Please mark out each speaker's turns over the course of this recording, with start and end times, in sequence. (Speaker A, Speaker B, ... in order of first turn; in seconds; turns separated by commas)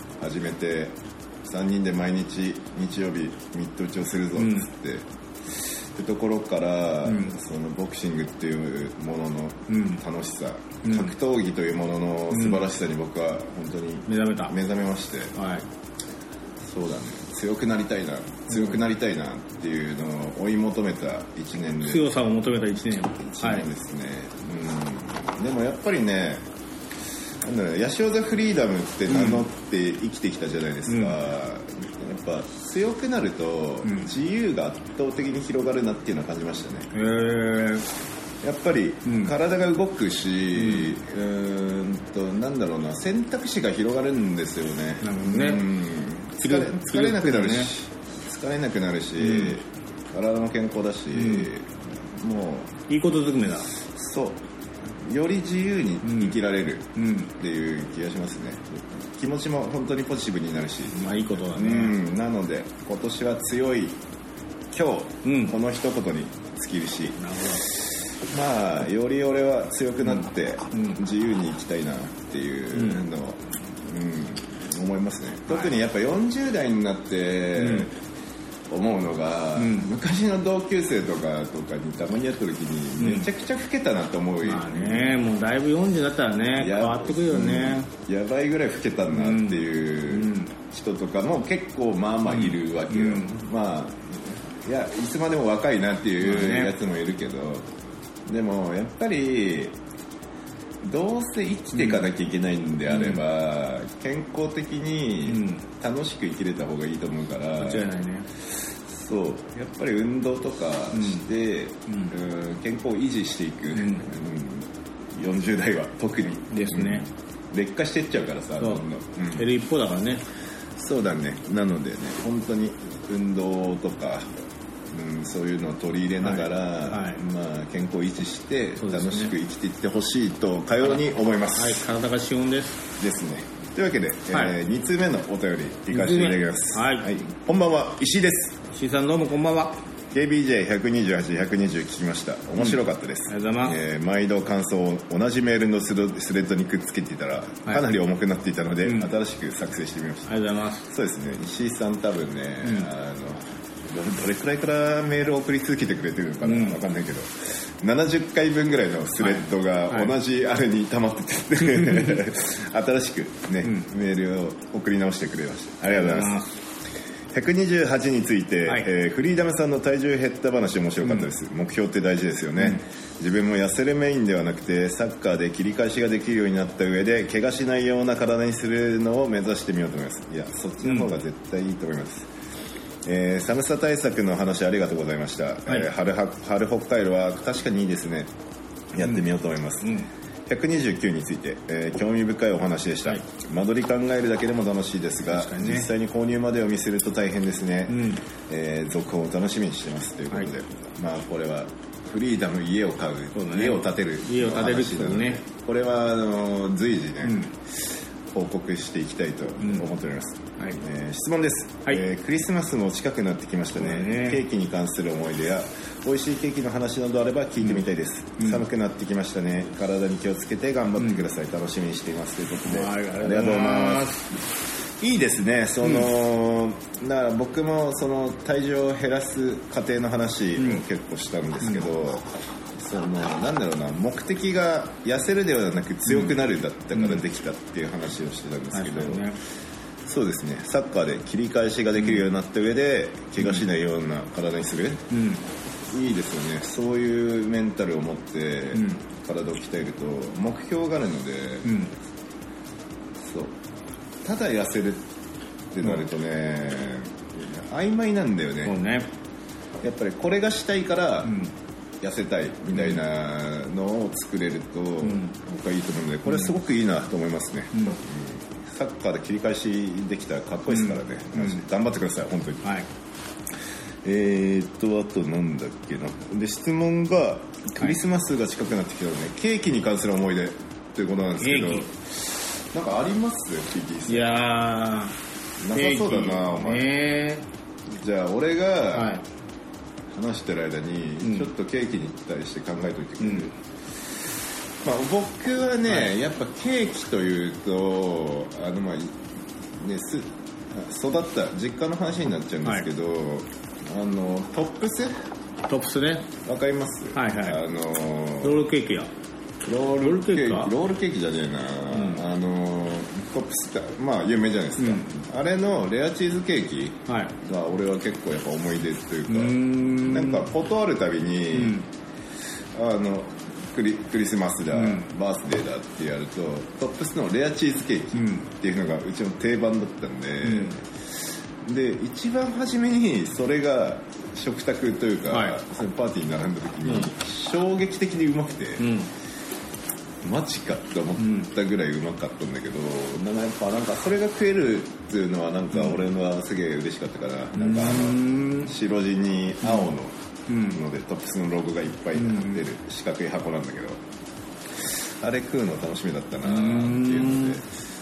Speaker A: 0.2-15.3, Speaker B: 4.3-4.7, Speaker B: 7.0-7.4, Speaker B: 9.7-10.0, Speaker B: 10.8-11.1, Speaker B: 12.3-12.6, Speaker B: 14.1-14.6, Speaker B: 15.3-15.7, Speaker A: 16.6-22.1, Speaker B: 18.5-18.8, Speaker B: 21.8-23.7, Speaker A: 23.2-26.4, Speaker A: 27.4-36.9, Speaker B: 29.1-29.4, Speaker B: 30.9-31.2, Speaker B: 33.8-34.1, Speaker B: 36.9-37.9, Speaker A: 38.4-52.8, Speaker B: 39.0-39.3, Speaker B: 40.5-40.9, Speaker B: 45.0-45.7, Speaker B: 46.4-47.7, Speaker B: 49.2-49.6, Speaker B: 51.1-51.5, Speaker B: 52.9-53.7, Speaker A: 53.8-64.0, Speaker B: 56.0-56.4, Speaker B: 57.0-57.3, Speaker B: 60.9-62.0, Speaker A: 64.7-77.9, Speaker B: 65.2-65.5, Speaker B: 67.2-67.7, Speaker B: 70.0-71.0, Speaker B: 72.7-73.0, Speaker B: 75.5-75.7, Speaker B: 77.6-77.9, Speaker A: 78.7-85.2, Speaker B: 79.5-79.9, Speaker B: 83.0-83.3, Speaker B: 84.4-87.9, Speaker A: 86.6-97.7, Speaker B: 89.1-90.5, Speaker B: 92.3-93.3, Speaker B: 96.2-96.7, Speaker A: 98.2-99.8, Speaker A: 100.8-107.9, Speaker B: 101.7-102.0, Speaker B: 102.9-103.2, Speaker B: 105.3-105.6, Speaker B: 107.6-108.3, Speaker A: 108.7-119.5, Speaker B: 110.9-111.3, Speaker B: 111.9-112.1, Speaker B: 113.7-114.0, Speaker B: 116.5-117.1, Speaker B: 118.6-120.2, Speaker A: 120.8-124.4, Speaker A: 124.9-131.8, Speaker B: 126.2-127.2, Speaker B: 128.8-129.3, Speaker B: 131.5-132.8, Speaker A: 133.0-138.6, Speaker B: 135.9-137.1, Speaker B: 138.7-139.8, Speaker A: 140.1-166.5, Speaker B: 142.6-143.8, Speaker B: 148.8-149.1, Speaker B: 150.3-150.9, Speaker B: 152.6-152.9, Speaker B: 156.4-156.8, Speaker B: 159.2-160.1, Speaker B: 161.6-162.2, Speaker B: 165.9-166.5, Speaker A: 167.3-182.3, Speaker B: 180.8-181.1, Speaker A: 183.0-188.3, Speaker A: 188.9-189.9, Speaker B: 189.8-190.1, Speaker A: 190.5-224.2, Speaker B: 195.3-195.9, Speaker B: 197.9-198.2, Speaker B: 203.3-205.4, Speaker B: 207.2-207.5, Speaker B: 209.6-209.9, Speaker B: 213.8-214.4, Speaker B: 218.4-218.6, Speaker B: 221.0-221.2, Speaker B: 222.7-224.3, Speaker A: 225.0-239.2, Speaker B: 225.8-226.1, Speaker B: 230.6-230.8, Speaker B: 236.1-236.4, Speaker B: 236.9-237.2, Speaker B: 238.7-239.4, Speaker A: 240.1-245.1, Speaker B: 242.0-242.2, Speaker B: 245.1-245.4, Speaker A: 245.9-251.8, Speaker B: 248.7-249.0, Speaker B: 251.6-251.9, Speaker A: 253.2-253.6, Speaker A: 254.2-255.0, Speaker A: 255.7-258.8, Speaker B: 258.6-259.1, Speaker A: 259.8-261.4, Speaker B: 261.2-261.5, Speaker A: 262.0-272.7, Speaker B: 262.7-263.0, Speaker B: 265.0-265.3, Speaker B: 266.2-266.5, Speaker B: 270.7-271.6, Speaker A: 274.0-284.4, Speaker B: 281.4-281.9, Speaker B: 284.1-285.1, Speaker A: 285.6-286.9, Speaker B: 285.7-287.4, Speaker A: 287.9-289.1, Speaker B: 288.9-289.2, Speaker A: 290.1-293.6, Speaker B: 291.2-291.5, Speaker B: 293.2-293.5, Speaker A: 294.8-299.2, Speaker A: 299.8-305.1, Speaker B: 305.7-306.3, Speaker A: 306.4-308.6, Speaker B: 307.1-307.6, Speaker B: 308.4-309.1, Speaker A: 309.6-321.8, Speaker B: 310.0-310.7, Speaker B: 311.9-312.2, Speaker B: 314.8-315.1, Speaker B: 317.1-317.3, Speaker B: 319.3-320.5, Speaker B: 321.5-321.9, Speaker A: 322.7-338.9, Speaker B: 324.7-325.1, Speaker B: 328.1-328.5, Speaker B: 330.4-330.8, Speaker B: 335.3-335.6, Speaker B: 336.8-337.1, Speaker B: 338.8-339.1, Speaker A: 340.2-354.0, Speaker B: 341.2-341.5, Speaker B: 345.7-346.0, Speaker B: 347.5-348.7, Speaker B: 349.6-349.9, Speaker B: 350.5-350.8, Speaker B: 352.1-352.6, Speaker A: 354.9-357.7, Speaker B: 356.4-357.6